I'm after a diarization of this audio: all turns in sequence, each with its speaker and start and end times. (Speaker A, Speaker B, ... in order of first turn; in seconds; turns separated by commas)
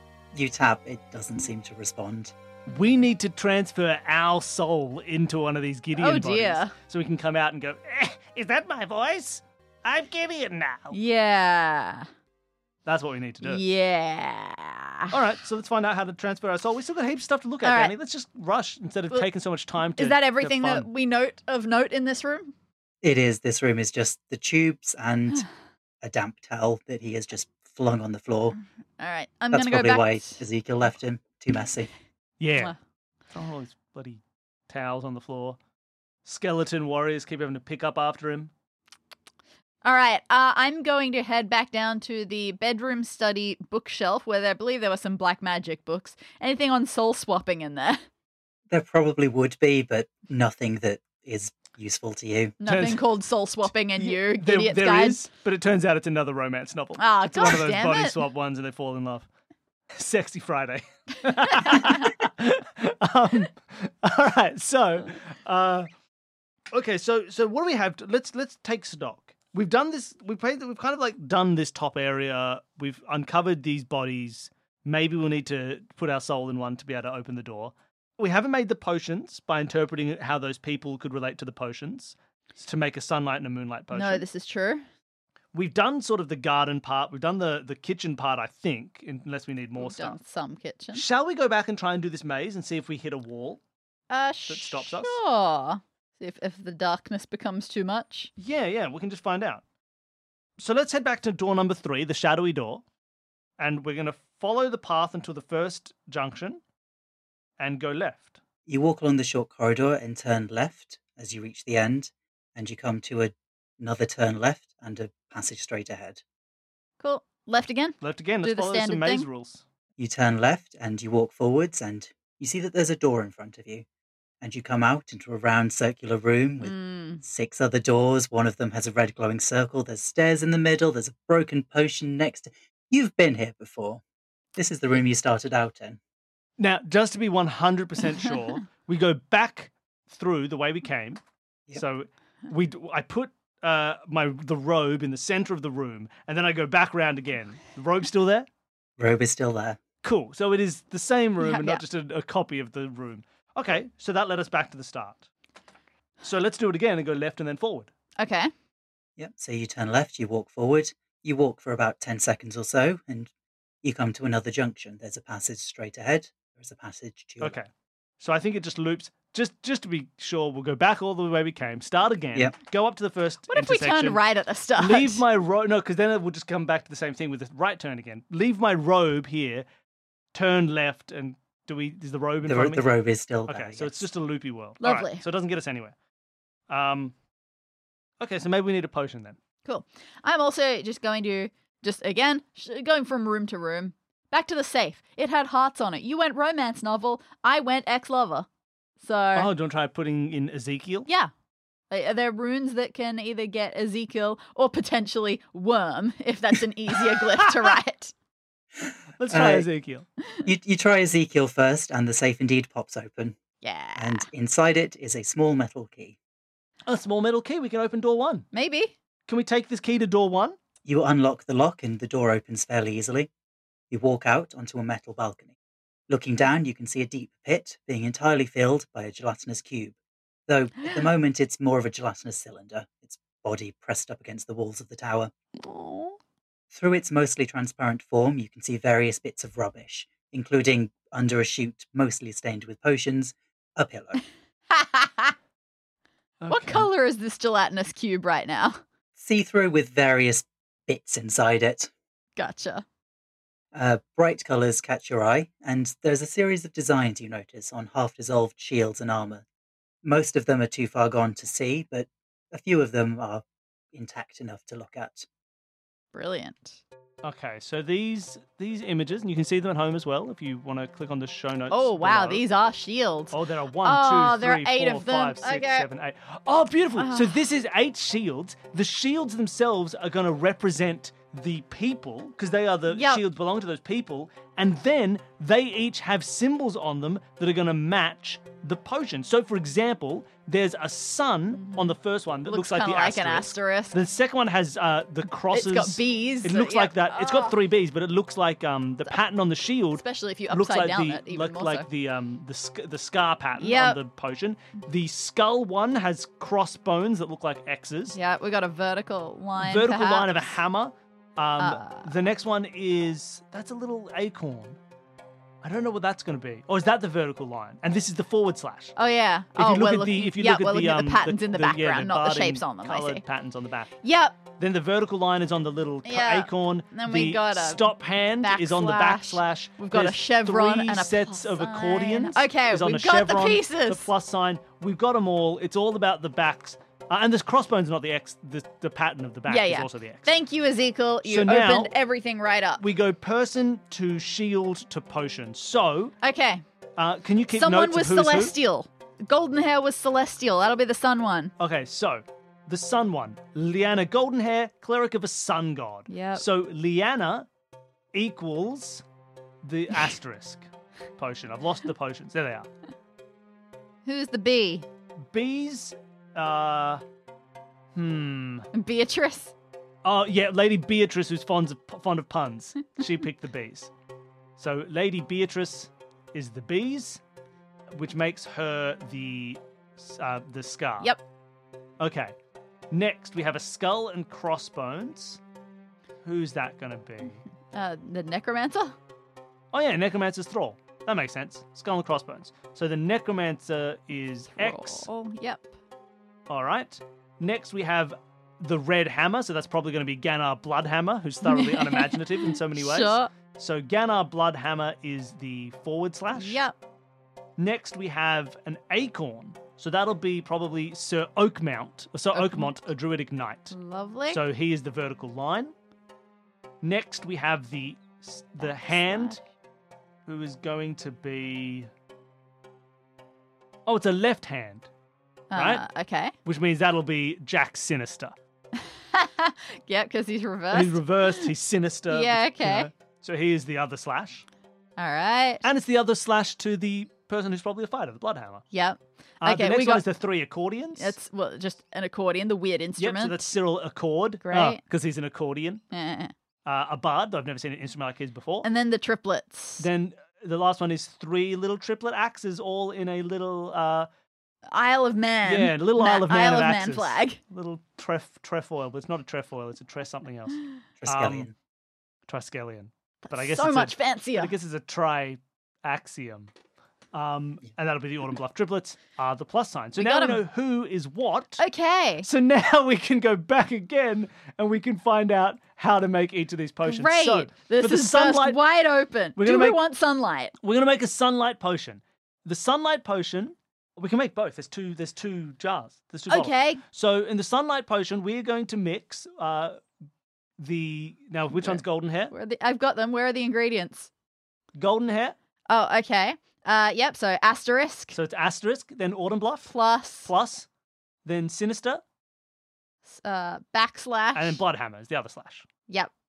Speaker A: 0.3-2.3, Speaker B: 2.7-10.9, Speaker C: 5.9-6.7, Speaker C: 10.9-12.1, Speaker B: 12.8-13.6, Speaker C: 13.4-15.1, Speaker B: 15.1-20.9, Speaker C: 17.6-17.9, Speaker C: 20.0-22.5, Speaker A: 23.0-25.4, Speaker A: 26.0-28.6, Speaker C: 29.0-30.4, Speaker A: 29.5-31.9, Speaker B: 32.4-32.7, Speaker B: 33.3-35.6, Speaker B: 36.2-38.5, Speaker C: 39.8-48.0, Speaker A: 48.7-52.6, Speaker C: 52.6-55.2, Speaker B: 52.6-53.0, Speaker B: 54.0-59.3, Speaker C: 57.0-58.2, Speaker B: 59.9-65.9, Speaker C: 61.6-61.9, Speaker B: 66.7-84.2, Speaker C: 83.9-84.8, Speaker B: 85.5-90.2, Speaker C: 89.8-91.0, Speaker B: 90.9-93.6, Speaker C: 94.1-98.3, Speaker B: 94.5-95.2, Speaker B: 98.4-99.6, Speaker B: 100.6-102.8, Speaker B: 103.6-106.6, Speaker B: 107.6-108.4, Speaker A: 108.7-116.2, Speaker C: 117.0-119.2, Speaker B: 118.0-119.6, Speaker A: 120.0-123.8, Speaker A: 124.4-134.0, Speaker C: 126.6-127.2, Speaker A: 134.6-136.0, Speaker B: 136.6-141.2, Speaker B: 141.7-148.5, Speaker A: 149.0-149.8, Speaker B: 150.0-155.3, Speaker C: 151.4-151.8, Speaker B: 156.2-157.9, Speaker C: 158.2-158.5, Speaker A: 159.2-163.3, Speaker A: 163.8-167.6, Speaker B: 167.4-167.7, Speaker B: 168.2-174.2, Speaker C: 173.5-175.2, Speaker B: 174.8-179.6, Speaker B: 180.3-182.9, Speaker A: 182.4-184.1, Speaker B: 183.5-185.9, Speaker C: 184.8-185.2, Speaker B: 186.7-187.1, Speaker B: 188.2-189.4, Speaker C: 189.6-198.5, Speaker C: 199.0-199.5, Speaker B: 199.3-201.1, Speaker C: 201.9-208.1, Speaker B: 209.2-210.0, Speaker A: 209.3-209.7, Speaker A: 210.4-213.4, Speaker C: 213.6-214.2, Speaker A: 213.9-216.2, Speaker B: 216.8-218.5, Speaker C: 218.5-218.9, Speaker B: 219.3-220.6, Speaker A: 220.8-223.3, Speaker A: 223.9-225.5, Speaker A: 226.1-229.9, Speaker A: 230.5-235.3, Speaker B: 235.6-236.1, Speaker A: 236.7-244.2, Speaker C: 244.7-245.3, Speaker B: 246.4-246.9, Speaker C: 246.5-248.8, Speaker A: 249.2-251.9, Speaker C: 252.4-252.8, Speaker A: 253.7-259.4, Speaker A: 260.0-265.3, Speaker C: 266.1-266.8, Speaker B: 267.2-272.4, Speaker C: 271.7-275.9, Speaker B: 273.3-308.2, Speaker C: 277.0-277.4, Speaker C: 282.9-283.2, Speaker C: 291.5-291.9, Speaker C: 292.4-294.0, Speaker C: 295.5-297.5, Speaker C: 299.9-301.9, Speaker C: 303.6-304.0, Speaker C: 308.1-310.5, Speaker B: 309.6-314.8, Speaker C: 311.6-312.1, Speaker B: 315.6-318.9, Speaker C: 318.9-323.2, Speaker B: 319.6-323.9, Speaker C: 324.0-324.4, Speaker B: 324.6-340.3, Speaker C: 326.0-327.9, Speaker C: 328.4-334.1, Speaker C: 339.5-342.8, Speaker B: 341.2-341.9, Speaker B: 342.8-346.1, Speaker C: 346.2-346.6, Speaker B: 347.0-348.5, Speaker C: 347.5-351.5, Speaker B: 351.6-357.5, Speaker C: 356.1-356.4, Speaker B: 358.1-359.0, Speaker B: 359.6-362.7, Speaker C: 364.0-364.9, Speaker B: 365.3-367.0, Speaker B: 367.9-368.7, Speaker C: 368.7-369.5, Speaker B: 370.0-373.9, Speaker B: 374.6-377.2, Speaker B: 377.9-381.1, Speaker B: 382.0-382.3, Speaker B: 382.9-385.4, Speaker B: 386.2-387.4, Speaker C: 387.7-388.9, Speaker B: 389.7-395.1, Speaker C: 394.6-395.7, Speaker B: 396.5-406.6, Speaker C: 401.4-403.3, Speaker C: 406.3-406.8, Speaker B: 407.6-413.7, Speaker C: 412.3-412.7, Speaker C: 413.7-414.4, Speaker B: 414.3-415.7, Speaker B: 416.8-419.4, Speaker C: 418.6-419.4, Speaker B: 420.2-421.9, Speaker B: 423.9-424.9, Speaker C: 425.5-426.3, Speaker B: 425.5-425.8, Speaker B: 426.4-428.3, Speaker C: 428.8-431.5, Speaker B: 430.7-434.4, Speaker C: 432.1-432.9, Speaker C: 435.0-435.6, Speaker B: 435.6-438.6, Speaker C: 438.7-440.0, Speaker B: 439.4-441.1, Speaker C: 441.0-443.5, Speaker B: 443.0-445.8, Speaker C: 444.4-444.8, Speaker C: 445.9-446.3, Speaker B: 446.6-448.7, Speaker C: 448.6-449.9, Speaker B: 449.8-454.1, Speaker C: 454.7-457.4, Speaker B: 455.4-461.5, Speaker A: 461.0-461.5, Speaker B: 462.3-466.5, Speaker C: 463.2-464.5, Speaker B: 467.1-471.6, Speaker C: 470.0-470.4, Speaker C: 471.6-472.3, Speaker B: 472.2-478.6, Speaker C: 476.8-480.5, Speaker B: 479.4-479.8, Speaker B: 480.6-489.8, Speaker C: 486.3-486.8, Speaker B: 490.6-492.3, Speaker C: 491.5-494.1, Speaker B: 494.7-495.3, Speaker C: 495.7-498.1, Speaker B: 498.1-500.7, Speaker C: 499.7-500.3, Speaker B: 501.2-502.0, Speaker C: 503.1-504.6, Speaker B: 504.3-505.7